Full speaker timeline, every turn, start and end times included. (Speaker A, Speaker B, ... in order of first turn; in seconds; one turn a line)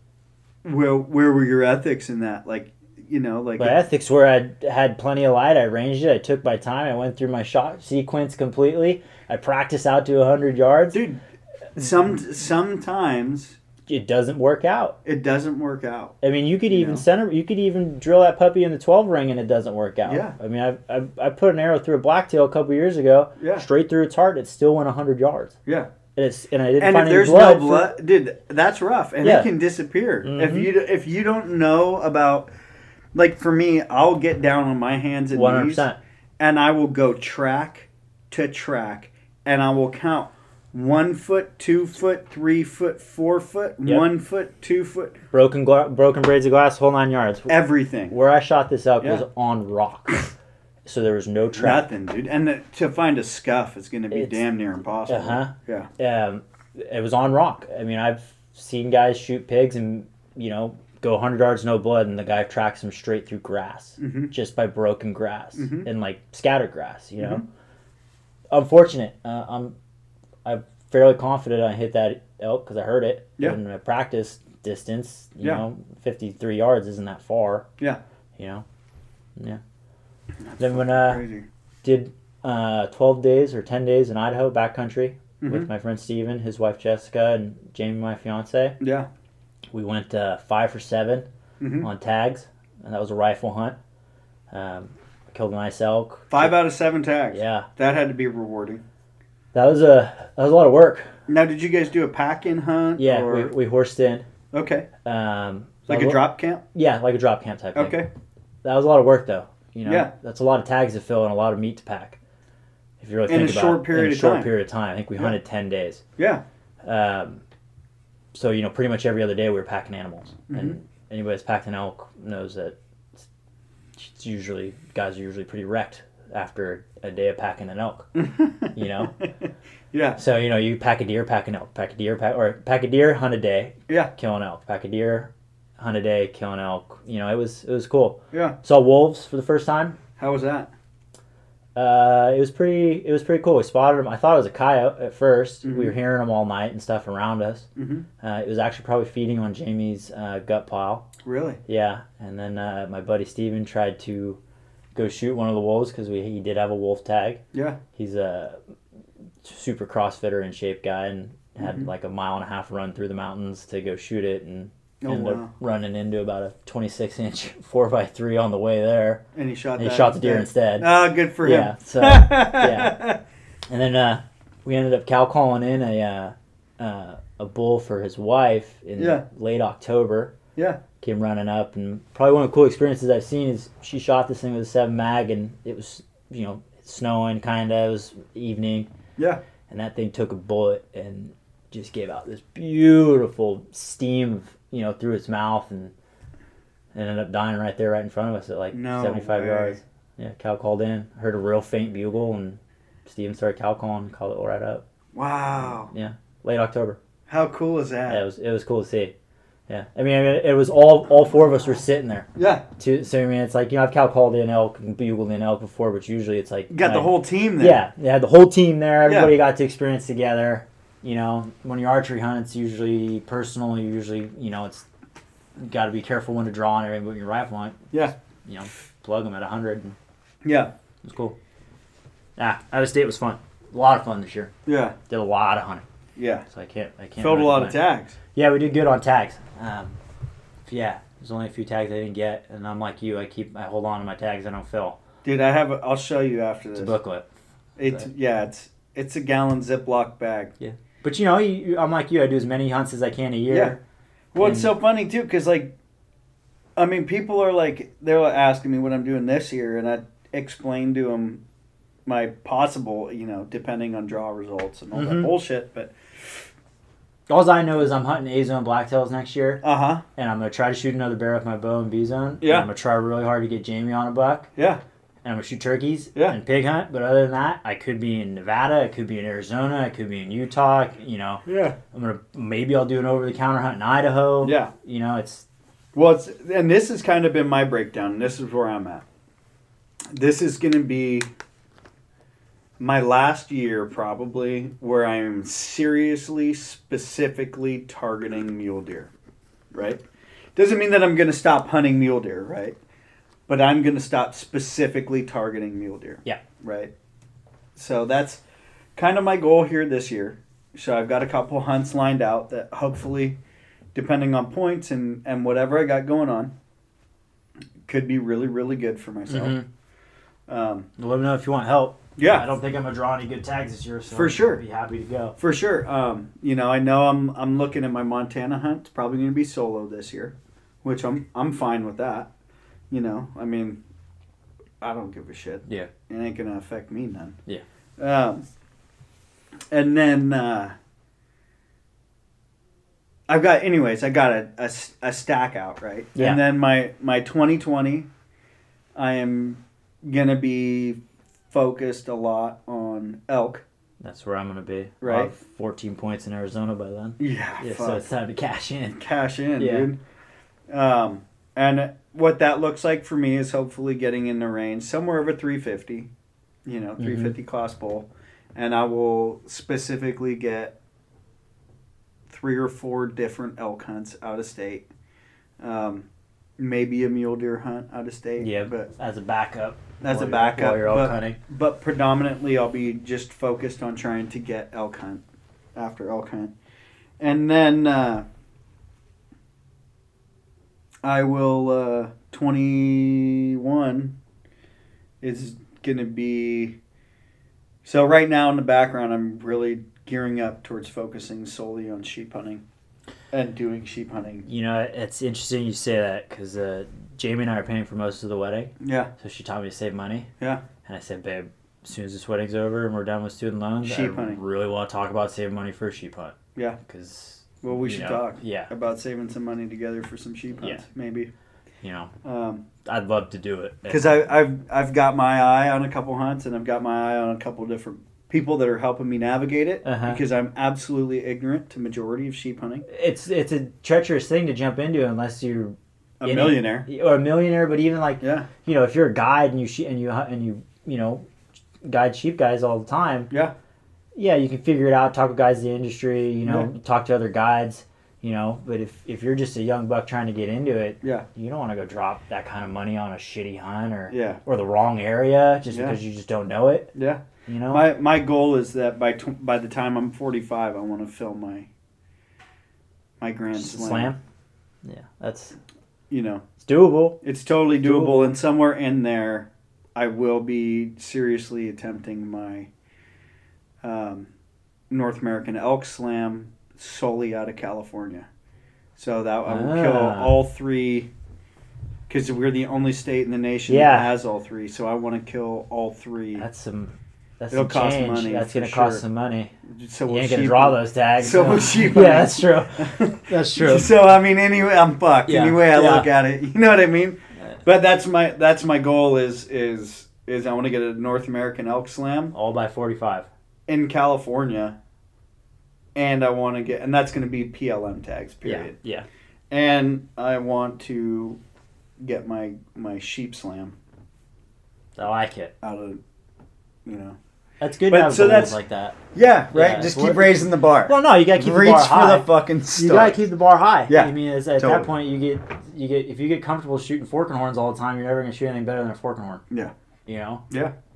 Speaker A: 0.6-3.8
Speaker B: 3.6-11.0
Speaker A: 10.9-11.2
Speaker A: 11.8-13.6
Speaker B: 13.9-15.0
Speaker A: 15.0-16.1
Speaker B: 16.2-25.6
Speaker A: 16.7-17.0
Speaker A: 20.1-20.4
Speaker A: 23.4-23.6
Speaker B: 26.1-27.9
Speaker A: 26.8-32.5
Speaker B: 29.2-29.5
Speaker B: 30.2-30.7
Speaker A: 33.1-35.8
Speaker B: 35.3-36.0
Speaker A: 36.4-45.2
Speaker B: 45.3-47.5
Speaker A: 47.5-48.1
Speaker B: 48.1-50.3
Speaker B: 50.8-51.8
Speaker A: 51.5-55.9
Speaker B: 54.1-54.4
Speaker B: 55.1-67.4
Speaker A: 64.0-64.3
Speaker A: 65.5-65.9
Speaker A: 67.2-67.4
Speaker B: 68.5-69.7
Speaker B: 70.4-77.7
Speaker B: 78.4-78.6
Speaker B: 79.3-79.6
Speaker A: 80.4-81.5
Speaker B: 80.6-81.2
Speaker B: 81.8-88.8
Speaker A: 85.4-85.7
Speaker A: 88.8-89.1
Speaker B: 89.7-91.3
Speaker A: 91.6-91.9
Speaker B: 91.8-93.8
Speaker B: 94.5-96.6
Speaker A: 96.3-98.8
Speaker B: 97.3-97.7
Speaker B: 99.5-101.1
Speaker A: 101.3-103.5
Speaker B: 103.0-104.3
Speaker A: 104.5-104.9
Speaker B: 105.0-108.0
Speaker A: 105.9-106.6
Speaker A: 107.7-108.1
Speaker B: 108.6-112.2
Speaker A: 109.8-110.1
Speaker B: 113.0-116.0
Speaker A: 113.3-114.5
Speaker A: 116.2-116.4
Speaker B: 116.8-117.4
Speaker B: 118.3-123.3
Speaker A: 120.5-120.8
Speaker B: 124.0-128.1
Speaker A: 128.1-130.2
Speaker B: 128.7-129.1
Speaker B: 130.2-140.0
Speaker A: 138.3-138.6
Speaker A: 140.2-140.7
Speaker B: 141.7-147.7
Speaker A: 145.6-145.9
Speaker A: 147.8-148.1
Speaker B: 148.2-151.1
Speaker A: 151.2-151.6
Speaker B: 151.7-154.4
Speaker B: 154.9-157.4
Speaker A: 157.5-157.8
Speaker B: 157.9-158.6
Speaker B: 159.4-169.2
Speaker A: 161.6-161.9
Speaker A: 165.0-165.5
Speaker A: 169.3-173.2
Speaker B: 169.8-172.9
Speaker B: 173.7-180.4
Speaker A: 179.0-179.2
Speaker B: 181.0-188.9
Speaker B: 189.7-195.9
Speaker B: 196.9-204.8
Speaker A: 198.7-199.8
Speaker A: 205.1-205.9
Speaker B: 205.6-207.0
Speaker A: 207.3-208.2
Speaker B: 208.1-209.1
Speaker B: 209.7-224.8
Speaker A: 212.3-212.6
Speaker A: 216.7-217.8
Speaker A: 219.0-219.3
Speaker B: 225.6-229.9
Speaker A: 230.4-230.7
Speaker B: 231.0-231.3
Speaker B: 232.4-234.5
Speaker A: 234.7-234.9
Speaker B: 235.1-235.8
Speaker A: 236.2-236.4
Speaker B: 236.5-237.8
Speaker A: 237.2-238.2
Speaker B: 238.3-240.0
Speaker B: 240.7-245.0
Speaker A: 245.2-246.9
Speaker B: 246.7-247.3
Speaker A: 247.8-250.5
Speaker B: 250.6-253.8
Speaker A: 253.5-253.8
Speaker A: 254.3-255.7
Speaker B: 254.4-254.7
Speaker A: 256.8-261.4
Speaker A: 262.1-265.9
Speaker B: 264.9-265.3
Speaker B: 267.3-269.6
Speaker A: 269.6-270.0
Speaker B: 270.1-274.5
Speaker A: 272.4-272.7
Speaker A: 274.6-274.8
Speaker B: 275.2-285.4
Speaker A: 281.4-281.8
Speaker A: 284.4-284.7
Speaker A: 285.9-289.0
Speaker A: 290.1-291.3
Speaker A: 292.8-299.1
Speaker A: 299.7-300.0
Speaker A: 300.6-302.8
Speaker A: 303.5-306.9
Speaker A: 307.8-308.4
Speaker A: 308.9-313.4
Speaker A: 313.9-316.5
Speaker A: 317.9-319.6
Speaker B: 319.3-319.6
Speaker A: 320.5-320.9
Speaker B: 321.0-325.4
Speaker A: 322.2-322.4
Speaker A: 324.1-324.6
Speaker A: 325.4-332.3
Speaker A: 332.9-333.8
Speaker A: 334.8-337.4
Speaker A: 338.0-338.4
Speaker A: 339.7-340.7
Speaker A: 343.3-348.1
Speaker B: 346.1-346.4
Speaker A: 348.9-351.0
Speaker A: 351.5-353.6
Speaker B: 354.0-359.0
Speaker A: 355.0-355.3
Speaker A: 357.2-358.0
Speaker A: 359.0-360.0
Speaker B: 359.6-359.9
Speaker A: 360.7-366.1
Speaker A: 366.6-370.8
Speaker B: 367.0-367.3
Speaker A: 372.3-374.9
Speaker A: 375.6-376.1
Speaker A: 376.6-378.9
Speaker B: 378.4-381.4
Speaker A: 380.0-385.2
Speaker A: 385.8-386.5
Speaker A: 387.2-388.2
Speaker A: 391.0-394.1
Speaker A: 395.2-396.8
Speaker A: 397.8-402.6
Speaker A: 403.3-404.4
Speaker B: 404.4-410.3
Speaker A: 408.8-409.1
Speaker B: 410.8-418.7
Speaker A: 413.8-414.4
Speaker A: 417.6-421.3
Speaker B: 421.8-422.1
Speaker A: 422.2-422.6
Speaker B: 422.8-424.2
Speaker A: 423.9-432.9
Speaker B: 429.8-430.2
Speaker B: 432.9-441.2
Speaker A: 436.2-436.9
Speaker A: 438.2-438.5
Speaker B: 441.8-443.3
Speaker B: 444.1-456.9
Speaker A: 454.1-454.4
Speaker A: 455.7-456.0
Speaker A: 456.9-461.7
Speaker B: 457.5-457.9
Speaker A: 463.2-464.1
Speaker B: 463.5-464.2
Speaker B: 464.8-465.6
Speaker A: 466.1-466.4
Speaker B: 466.6-467.2
Speaker A: 467.2-472.7
Speaker B: 467.8-468.3
Speaker A: 473.8-474.3
Speaker A: 474.9-478.3
Speaker A: 478.9-481.1
Speaker B: 479.4-480.4
Speaker A: 482.1-486.4
Speaker B: 483.7-484.1
Speaker B: 486.4-489.5
Speaker A: 487.5-489.0
Speaker A: 489.6-502.3
Speaker B: 490.1-493.9
Speaker B: 495.2-496.1
Speaker B: 502.3-503.3
Speaker A: 503.7-504.8
Speaker A: 505.9-508.8
Speaker B: 508.4-509.1
Speaker A: 509.5-511.4
Speaker A: 512.0-513.8
Speaker B: 515.0-515.5
Speaker A: 515.6-516.0
Speaker A: 516.9-517.2
Speaker B: 517.6-519.0
Speaker A: 517.9-518.6
Speaker A: 519.1-523.2
Speaker B: 519.5-529.4
Speaker A: 523.9-524.9
Speaker B: 530.0-530.4